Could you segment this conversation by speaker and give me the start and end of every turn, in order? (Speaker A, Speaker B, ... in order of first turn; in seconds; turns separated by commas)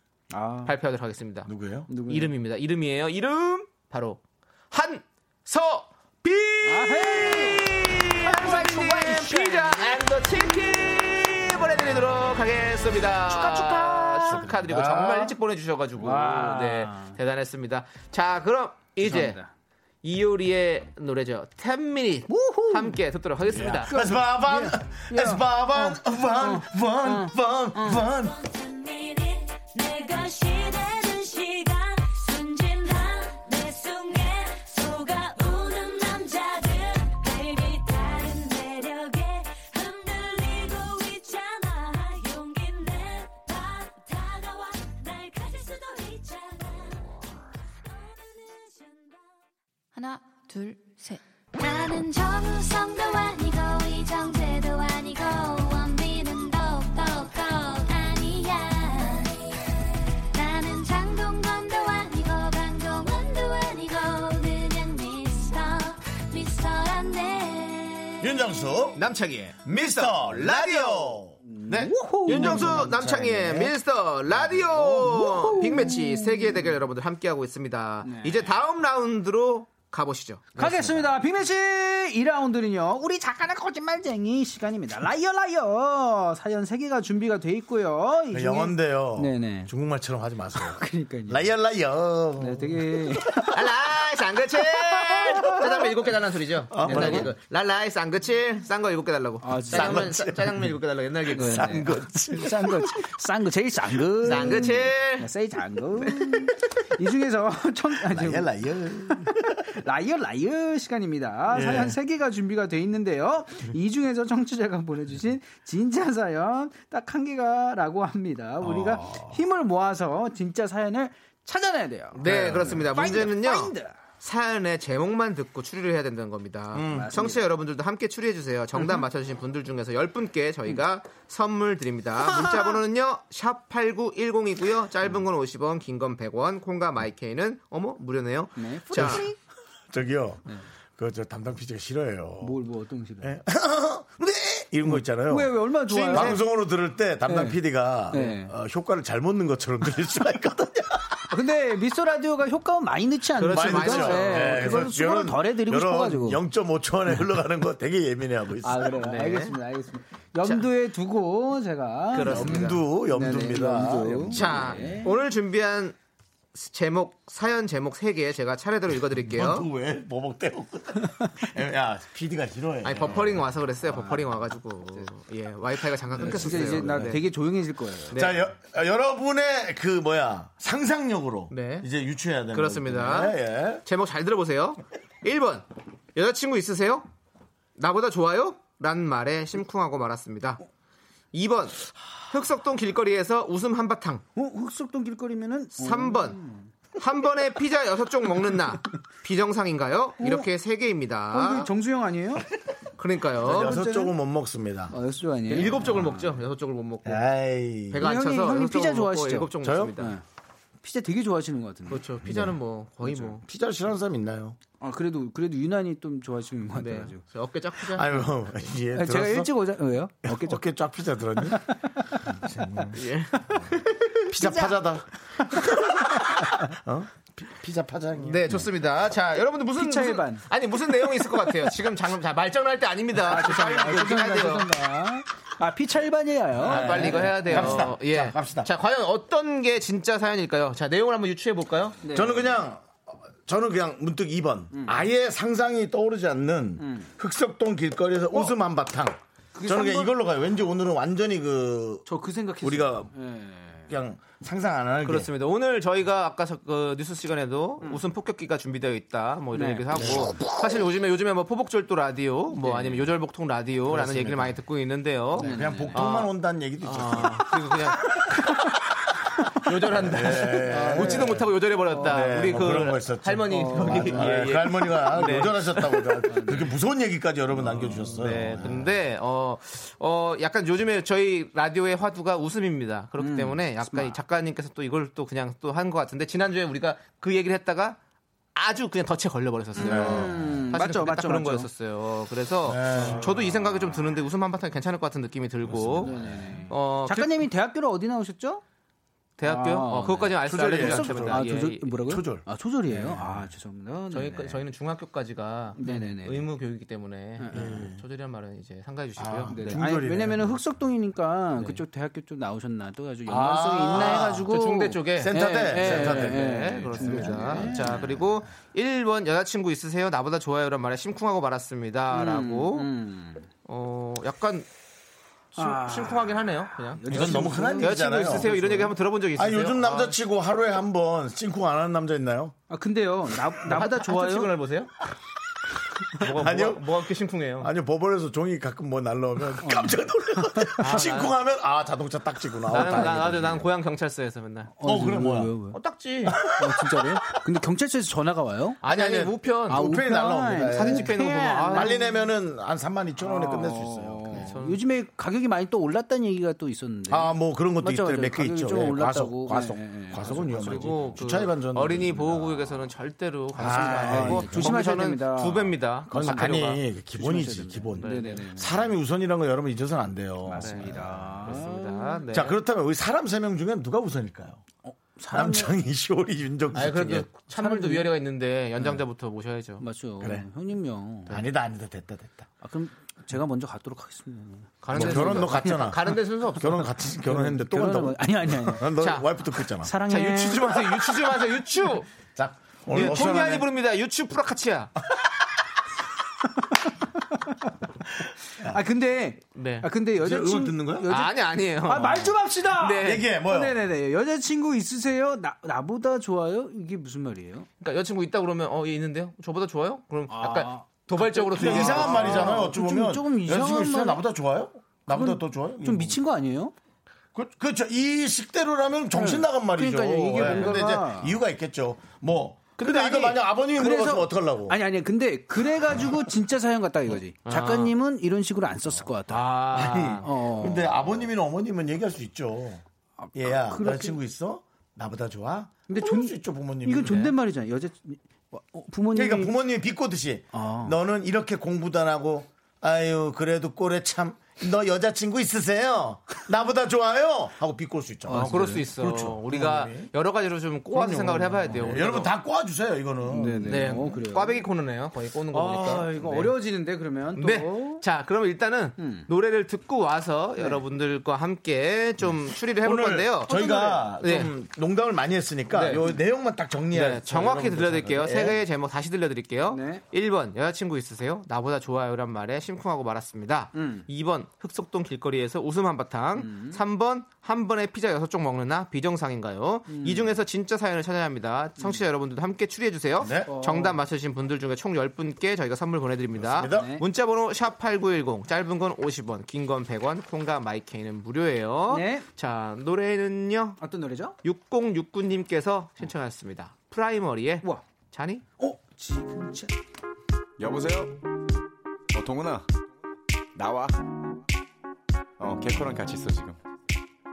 Speaker A: 0.3-0.7, Speaker B: 0.6-1.5, Speaker C: 1.4-1.9, Speaker A: 1.9-2.3, Speaker B: 2.1-19.4, Speaker A: 6.6-10.0, Speaker A: 13.3-14.5, Speaker C: 14.3-15.3, Speaker A: 16.0-17.2, Speaker A: 19.0-19.5, Speaker B: 20.0-23.9, Speaker A: 22.3-23.0, Speaker C: 23.5-28.4, Speaker A: 23.9-28.1, Speaker D: 28.2-49.4, Speaker D: 51.5-59.5, Speaker D: 60.3-68.2, Speaker C: 68.2-69.0, Speaker B: 68.9-81.1, Speaker C: 69.6-73.7, Speaker A: 71.4-73.1, Speaker C: 74.5-74.8, Speaker A: 74.7-76.7, Speaker A: 78.0-78.5, Speaker A: 80.6-89.7, Speaker C: 88.3-93.2, Speaker A: 90.5-91.5, Speaker A: 92.4-93.6, Speaker B: 93.5-102.0, Speaker A: 94.8-95.7, Speaker C: 96.7-97.3, Speaker A: 96.8-97.3, Speaker A: 99.4-100.2, Speaker C: 99.7-100.7, Speaker C: 101.3-103.1, Speaker A: 101.3-108.5, Speaker B: 104.2-105.3, Speaker C: 104.3-104.7, Speaker C: 108.0-109.7, Speaker A: 109.2-124.0, Speaker C: 111.5-112.0, Speaker C: 118.6-119.4, Speaker B: 122.1-139.3, Speaker C: 122.2-123.0, Speaker C: 126.7-127.2, Speaker A: 126.9-127.4, Speaker A: 132.2-132.8, Speaker A: 138.6-139.3, Speaker C: 138.9-139.2, Speaker C: 139.9-142.6, Speaker A: 142.4-143.3, Speaker C: 143.2-151.3, Speaker A: 144.8-146.5, Speaker B: 145.9-146.4, Speaker A: 147.2-148.5, Speaker A: 151.3-156.4, Speaker B: 153.3-154.9, Speaker C: 153.4-158.9, Speaker A: 158.6-165.1, Speaker B: 158.9-159.6, Speaker B: 160.4-160.7, Speaker B: 162.1-162.9, Speaker C: 162.2-165.0, Speaker B: 164.3-165.9, Speaker B: 166.5-169.7, Speaker C: 169.2-173.5, Speaker B: 172.8-177.2, Speaker A: 173.8-174.4, Speaker A: 176.2-178.2, Speaker C: 176.2-177.0, Speaker B: 178.1-178.4, Speaker C: 178.1-183.8, Speaker B: 181.5-181.9, Speaker B: 182.5-187.1, Speaker B: 187.8-190.6, Speaker B: 191.3-194.2, Speaker A: 194.3-196.7, Speaker B: 195.8-196.4, Speaker B: 197.0-201.7, Speaker A: 200.2-200.4, Speaker A: 201.3-202.5, Speaker B: 203.0-203.8, Speaker C: 203.4-204.9, Speaker A: 203.5-204.1, Speaker A: 204.9-206.2, Speaker B: 205.5-207.2, Speaker C: 205.6-206.2, Speaker C: 207.0-208.0, Speaker B: 207.9-210.2, Speaker A: 208.0-210.2, Speaker C: 209.6-209.9, Speaker A: 210.8-212.0, Speaker B: 211.9-213.4, Speaker C: 212.2-214.6, Speaker A: 214.8-217.2, Speaker B: 216.7-218.3, Speaker C: 217.8-219.5, Speaker A: 218.9-220.6, Speaker C: 220.2-221.6, Speaker A: 221.4-221.7, Speaker C: 222.3-223.0, Speaker B: 222.9-224.3, Speaker C: 224.3-228.7, Speaker A: 224.3-224.8, Speaker B: 228.2-234.7, Speaker A: 229.8-230.4, Speaker A: 233.2-237.9, Speaker C: 236.6-238.7, Speaker B: 236.6-242.0, Speaker A: 242.0-242.5, Speaker C: 242.1-242.9, Speaker C: 243.4-252.1, Speaker A: 244.7-245.0, Speaker A: 246.8-247.1, Speaker A: 249.5-250.1, Speaker A: 252.1-253.9, Speaker C: 252.6-253.1, Speaker C: 253.9-255.3, Speaker B: 255.0-268.4, Speaker A: 259.5-260.2, Speaker A: 262.6-263.1, Speaker C: 263.9-264.6, Speaker A: 265.4-266.0, Speaker C: 265.4-267.5, Speaker B: 269.6-276.2, Speaker C: 269.9-278.9, Speaker A: 270.6-272.7, Speaker A: 273.4-274.5, Speaker A: 276.3-276.6, Speaker A: 277.6-278.1, Speaker B: 278.1-288.0, Speaker A: 283.2-284.2, Speaker B: 288.5-297.4, Speaker A: 289.8-291.7, Speaker C: 289.8-290.6, Speaker C: 292.6-293.8, Speaker C: 295.6-296.7, Speaker A: 296.0-298.6, Speaker B: 299.4-301.9, Speaker A: 299.4-304.6, Speaker C: 300.4-303.5, Speaker B: 304.1-309.8, Speaker A: 305.8-306.5, Speaker A: 307.4-307.9, Speaker C: 307.5-308.0, Speaker C: 309.2-310.6, Speaker A: 309.5-318.2, Speaker C: 313.2-314.4, Speaker B: 313.9-322.9, Speaker C: 315.1-318.2, Speaker A: 322.1-323.5, Speaker B: 323.6-324.7, Speaker B: 325.5-330.2, Speaker A: 325.6-329.0, Speaker C: 327.1-328.5, Speaker C: 329.3-332.5, Speaker A: 332.7-334.6, Speaker B: 333.7-334.9, Speaker B: 336.1-337.7, Speaker C: 336.2-336.9, Speaker C: 337.6-343.7, Speaker A: 339.6-340.7, Speaker B: 340.8-341.3, Speaker B: 342.7-344.7, Speaker A: 344.8-345.8, Speaker C: 344.8-345.5, Speaker B: 345.7-346.4, Speaker C: 346.3-347.4, Speaker A: 346.4-348.8, Speaker B: 348.8-349.9, Speaker C: 348.8-351.2, Speaker A: 349.7-352.1, Speaker B: 350.7-352.0, Speaker C: 351.7-354.5, Speaker A: 353.2-361.1, Speaker B: 354.3-354.8, Speaker C: 357.1-362.9, Speaker B: 360.3-366.8, Speaker C: 363.6-364.8, Speaker A: 363.6-368.9, Speaker C: 366.1-371.6, Speaker B: 368.0-368.3, Speaker A: 370.4-372.2, Speaker B: 370.6-372.6, Speaker C: 372.3-374.6, Speaker A: 374.8-375.7, Speaker C: 375.3-377.3, Speaker B: 376.7-379.8, Speaker A: 377.5-378.1, Speaker A: 379.8-381.4, Speaker C: 380.2-380.4, Speaker C: 381.3-382.5, Speaker A: 382.6-386.0, Speaker B: 384.8-386.9, Speaker C: 384.9-389.9, Speaker A: 387.2-388.9, Speaker B: 389.0-389.3, Speaker A: 389.8-391.1, Speaker B: 390.1-392.1, Speaker C: 392.3-393.7, Speaker B: 392.9-394.9, Speaker A: 398.6-407.7, Speaker B: 399.5-399.9, Speaker C: 400.2-401.1, Speaker B: 401.1-403.2, Speaker C: 403.0-403.8, Speaker B: 407.8-412.7, Speaker A: 410.3-414.2, Speaker C: 411.5-416.2, Speaker A: 415.1-416.7, Speaker C: 417.3-424.8, Speaker A: 419.1-421.4, Speaker B: 420.4-420.8, Speaker B: 422.8-423.4, Speaker A: 423.7-429.5, Speaker B: 427.4-427.9, Speaker B: 429.3-430.3, Speaker C: 429.7-432.8, Speaker A: 430.2-431.1, Speaker A: 433.2-434.2, Speaker C: 433.3-437.3, Speaker A: 435.9-439.5, Speaker B: 437.0-437.3, Speaker C: 439.1-450.1, Speaker A: 440.5-440.9, Speaker A: 448.3-448.9, Speaker B: 448.3-452.3, Speaker C: 450.9-454.0, Speaker A: 451.6-452.1, Speaker A: 453.2-454.6, Speaker B: 453.7-456.5, Speaker A: 455.5-458.0, Speaker B: 457.3-463.6, Speaker A: 459.0-459.3, Speaker C: 462.8-468.6, Speaker A: 463.5-464.1, Speaker B: 464.2-464.5, Speaker B: 465.7-466.1, Speaker B: 466.9-493.8, Speaker A: 469.7-470.0, Speaker A: 473.7-474.1, Speaker A: 476.4-476.8, Speaker A: 479.9-480.4, Speaker C: 483.2-483.5, Speaker A: 483.5-484.0, Speaker C: 486.4-486.9, Speaker A: 486.7-487.0, Speaker A: 491.9-492.2, Speaker A: 493.8-494.3, Speaker B: 494.4-498.4, Speaker A: 498.6-499.7, Speaker E: 500.6-501.1, Speaker E: 502.1-502.6, Speaker E: 503.5-504.0, Speaker E: 505.4-506.6